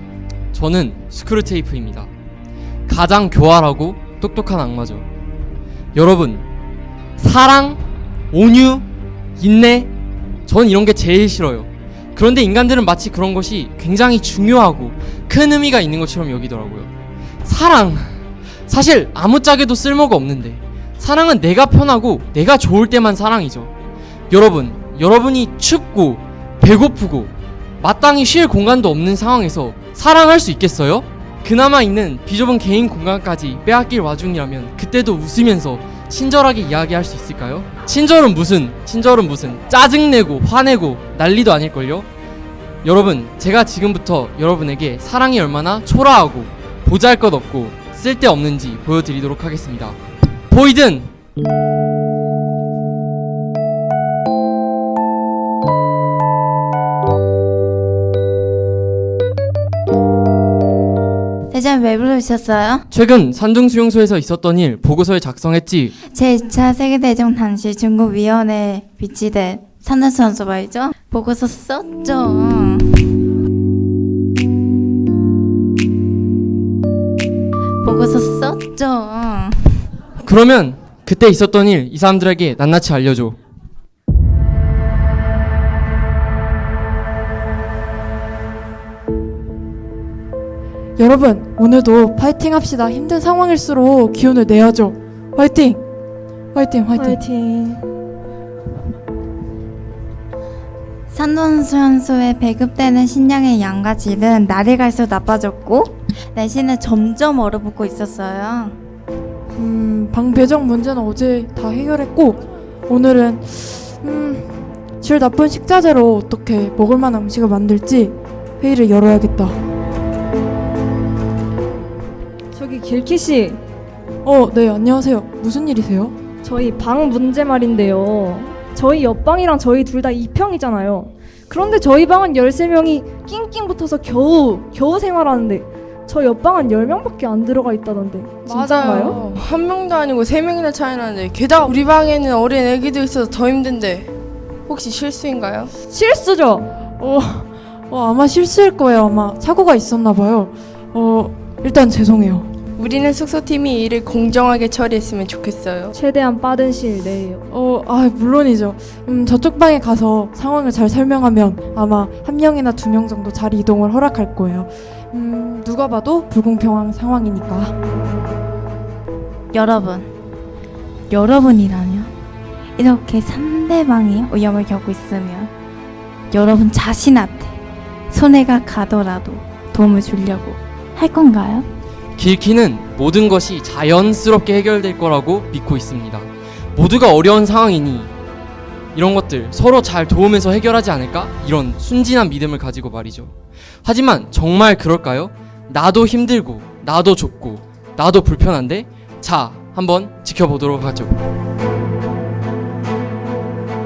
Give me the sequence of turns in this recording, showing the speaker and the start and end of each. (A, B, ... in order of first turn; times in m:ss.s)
0:00.5-0:02.1 A
0:02.9-0:05.1 A
0:05.9-0:06.4 A
0:07.2-0:08.9 A
0:09.4-0:09.9 A
0:10.5-0:16.9 A
0:17.4-0:18.2 A
0:18.7-0:23.7 A
0:24.3-0:42.1 A
0:42.8-0:50.0 A
0:50.5-0:51.1 A
1:01.5-1:02.8 B
1:02.9-1:06.0 A
1:06.0-1:13.0 B
1:17.8-1:19.8 B
1:20.2-1:23.4 A
1:31.0-1:35.8 C
1:36.5-1:37.2 C
1:36.9-1:37.8 D
1:41.1-1:48.8 B
1:49.6-1:59.6 C
2:02.5-2:03.6 D
2:04.2-2:06.1 C
2:06.4-2:19.2 D
2:18.4-2:24.1 E
2:24.7-2:25.7 E
2:25.9-2:26.7 D
2:27.0-2:32.5 C
2:32.8-2:35.9 E
2:35.9-2:37.5 D
2:37.5-2:47.7 C
2:49.5-2:50.1 B
2:51.1-2:52.1 B
2:52.8-2:55.5 B
2:56.3-2:57.6 B
2:58.1-3:01.7 B
3:02.2-3:08.1 A
3:08.9-3:13.3 A
3:13.8-3:21.2 A